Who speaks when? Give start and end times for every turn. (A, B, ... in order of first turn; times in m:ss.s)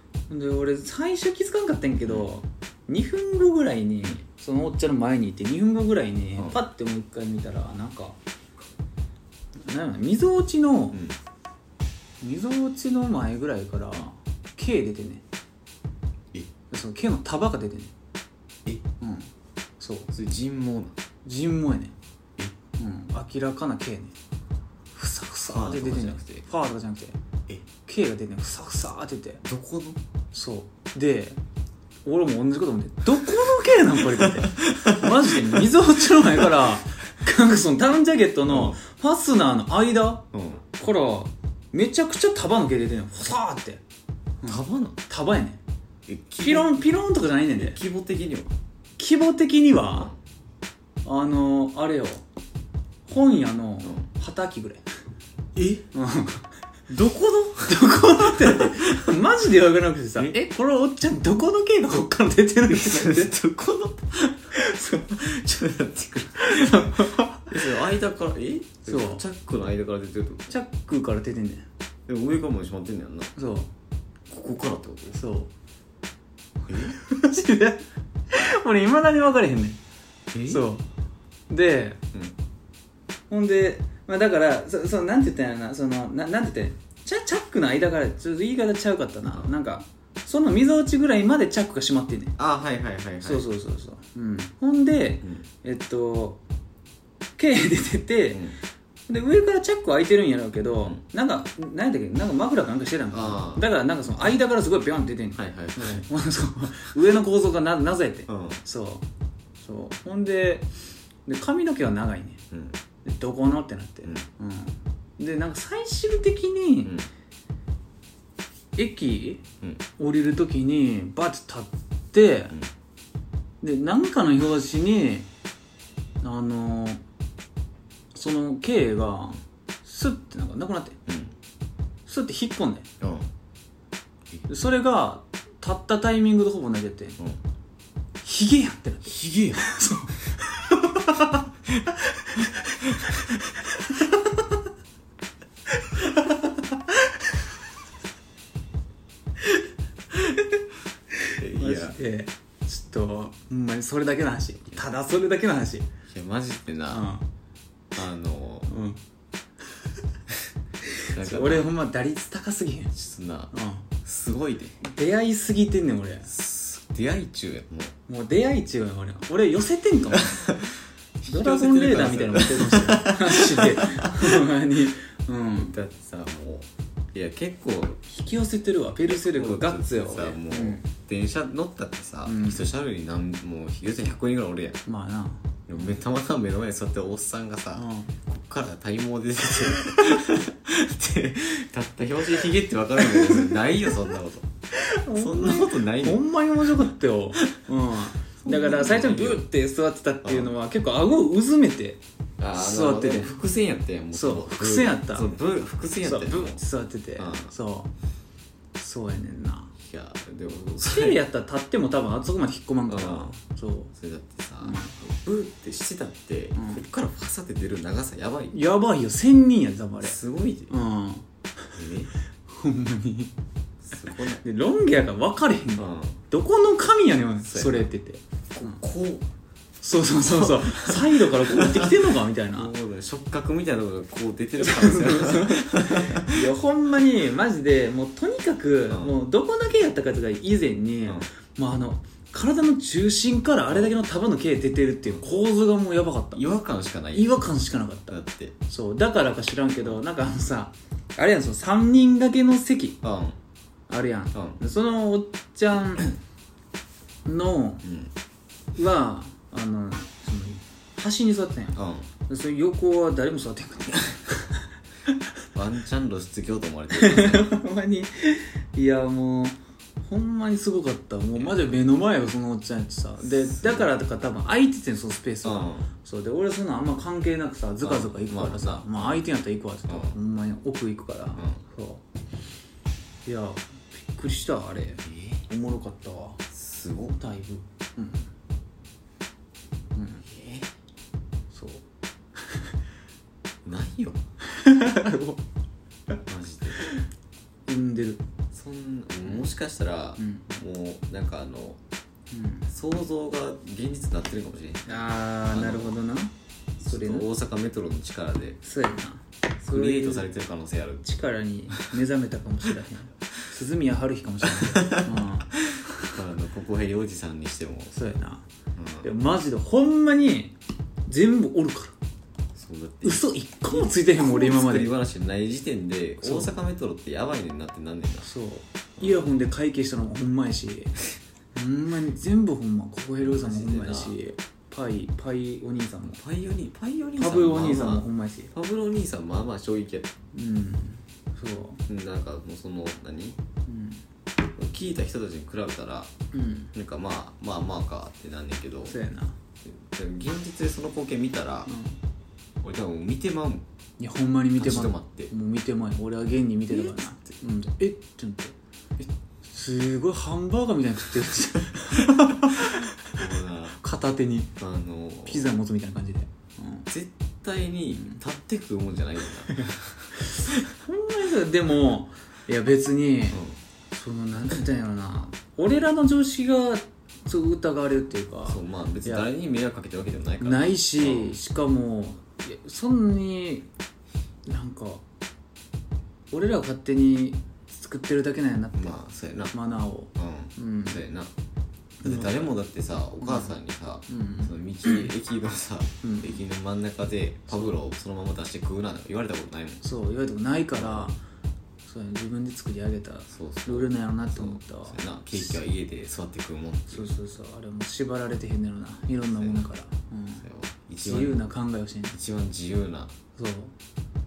0:00.3-0:08.2 A
0:09.6-0:11.0 A
0:12.2-0:15.2 A
0:16.7-0:17.9 A
0:19.0-0:20.1 A
0:20.1-0:21.0 B
0:21.2-0:22.0 A
0:22.8-0:24.2 A
0:25.0-0:27.2 A
0:25.5-0:26.4 B
0:27.8-0:29.4 A
0:29.4-0:30.0 B
0:30.3-0:31.4 A
0:32.0-0:43.8 A
0:34.0-0:35.7 B
0:38.5-0:38.8 B
0:40.3-0:40.6 B
0:44.4-0:45.6 A
0:44.5-0:45.0 B
0:46.1-0:46.9 B
0:46.4-0:47.8 A
0:47.5-0:48.5 B
0:49.0-0:50.1 A
0:51.0-0:52.2 A
0:53.1-0:54.8 A
0:55.6-0:55.8 B
0:55.9-0:56.5 A
0:56.9-0:57.8 B
0:57.5-1:03.4 A
0:58.4-0:59.1 B
1:02.7-1:10.5 B
1:04.6-1:05.2 A
1:06.4-1:07.8 A
1:08.9-1:09.2 A
1:10.5-1:11.7 A
1:12.1-1:13.3 B
1:13.4-1:13.7 A
1:14.3-1:15.2 B
1:15.2-1:15.5 A
1:16.7-1:17.0 B
1:16.8-1:19.8 A
1:20.3-1:20.7 B
1:20.5-1:20.9 A
1:21.5-1:22.0 A
1:23.3-1:32.4 A
1:32.4-1:33.4 B
1:33.2-1:36.4 A
1:37.4-1:38.5 A
1:38.3-1:38.6 B
1:39.1-1:49.0 A
1:43.1-1:43.6 B
1:45.4-1:46.0 B
1:48.3-1:48.6 B
1:49.6-1:50.7 A
1:51.3-1:52.4 A
1:52.5-1:52.8 B
1:53.0-1:57.0 A
1:58.8-1:59.4 A
2:00.0-2:02.6 A
2:03.6-2:05.3 A
2:06.2-2:07.0 A
2:08.1-2:11.0 A
2:11.1-2:11.3 B
2:12.1-2:12.9 A
2:13.0-2:13.3 B
2:14.5-2:17.2 A
2:18.2-2:21.4 A
2:19.1-2:19.8 B
2:22.2-2:23.2 A
2:22.9-2:23.2 B
2:25.8-2:27.1 A
2:31.2-2:35.9 A
2:31.3-2:32.0 B
2:36.1-2:37.0 B
2:36.9-2:37.2 A
2:38.0-2:38.7 B
2:38.7-2:39.0 A
2:40.8-2:43.0 A
2:41.1-2:41.7 B
2:43.0-2:44.8 B
2:43.5-2:43.9 A
2:44.8-2:46.3 A
2:46.3-2:48.0 B
2:48.1-2:50.4 A
2:50.1-2:54.5 B
2:51.3-2:55.8 A
2:55.6-2:58.0 B
2:58.1-3:00.8 A
2:59.1-3:04.8 B
3:02.3-3:02.6 A
3:04.9-3:05.6 A
3:05.7-3:14.5 B
3:07.7-3:08.1 A
3:13.0-3:13.5 A
3:14.7-3:22.0 A
3:15.1-3:16.2 B
3:18.4-3:19.5 B
3:20.2-3:20.5 B
3:22.4-3:26.6 B
3:22.6-3:23.4 A
3:24.1-3:25.3 A
3:26.0-3:27.9 A
3:27.2-3:27.5 B
3:28.8-3:29.7 A
3:29.8-3:31.2 B
3:30.8-3:33.9 A
3:32.9-3:33.3 B
3:33.9-3:38.6 B
3:34.6-3:35.0 A
3:36.6-3:36.8 A
3:38.5-3:40.2 A
3:40.0-3:40.7 B
3:40.7-3:41.8 A
3:41.7-3:42.1 B
3:42.5-3:43.3 A
3:43.8-3:44.4 B
3:44.4-3:48.8 A
3:45.8-3:46.2 B
3:47.4-3:47.8 B
3:48.5-3:49.3 B
3:49.8-3:52.7 A
3:50.2-3:56.4 B
3:54.6-4:06.4 A
3:58.9-3:59.2 B
4:03.7-4:03.9 B
4:06.3-4:07.5 B
4:07.1-4:13.0 A
4:08.1-4:08.6 B
4:13.0-4:13.4 B
4:13.9-4:16.2 A
4:14.3-4:14.6 B
4:17.2-4:17.8 A
4:17.8-4:18.1 B
4:18.8-4:24.6 A
4:21.8-4:22.1 B
4:25.6-4:27.6 B
4:27.0-4:42.0 A
4:33.4-4:33.9 B
4:35.4-4:35.9 B
4:37.8-4:39.3 B
4:39.9-4:40.2 B
4:43.3-4:46.4 A
4:45.0-4:45.4 B
4:46.5-4:47.2 B
4:47.1-4:48.3 A
4:50.0-4:50.2 A
4:50.2-4:50.7 B
4:51.5-4:51.8 A
4:53.6-4:54.2 B
4:54.5-4:55.4 A
4:56.3-4:56.9 B
4:57.7-4:58.2 A
4:58.5-5:01.8 B
5:00.2-5:00.5 A
5:02.3-5:02.7 A
5:02.7-5:06.0 B
5:04.9-5:07.3 A
5:06.8-5:08.6 B
5:08.6-5:10.3 A
5:09.6-5:11.1 B
5:11.0-5:16.1 A
5:14.6-5:15.0 B
5:15.8-5:17.9 B
5:17.9-5:18.4 A
5:18.8-5:19.1 B
5:19.0-5:20.6 A
5:21.1-5:22.0 A
5:22.6-5:28.3 B
5:23.0-5:24.9 A
5:26.2-5:26.5 A
5:28.2-5:31.0 A
5:29.0-5:29.3 B
5:31.6-5:36.2 A
5:33.2-5:34.2 B
5:36.0-5:40.1 B
5:37.2-5:38.5 A
5:40.3-5:41.8 A
5:41.9-5:43.4 B
5:43.7-5:44.0 A
5:44.5-5:46.1 B
5:46.3-5:46.7 A
5:46.7-5:49.0 B
5:48.9-5:49.4 A
5:49.6-5:51.7 B
5:51.7-5:52.0 A
5:52.6-5:53.7 B
5:54.0-6:03.2 A
5:54.6-5:55.3 B
5:56.7-5:57.4 B
6:02.7-6:03.8 B
6:03.8-6:04.5 A
6:04.6-6:05.5 B
6:05.3-6:06.9 A
6:06.9-6:10.7 B
6:07.9-6:08.2 A
6:09.5-6:19.3 A
6:13.3-6:13.6 B
6:18.5-6:21.4 B
6:20.4-6:23.7 A
6:24.5-6:25.0 A
6:26.3-6:29.0 A
6:28.8-6:29.6 B
6:29.5-6:31.0 A
6:30.2-6:31.3 B
6:32.0-6:39.8 B
6:32.0-6:32.4 A
6:33.2-6:35.1 A
6:36.0-6:36.4 A
6:37.5-6:37.8 A
6:39.8-6:41.2 A
6:40.8-6:41.1 B
6:41.8-6:45.6 A
6:43.3-6:47.1 B
6:46.9-6:50.5 A
6:49.3-6:49.7 B
6:50.4-6:51.5 B
6:51.0-6:52.2 A
6:52.1-6:53.1 B
6:53.4-6:53.7 A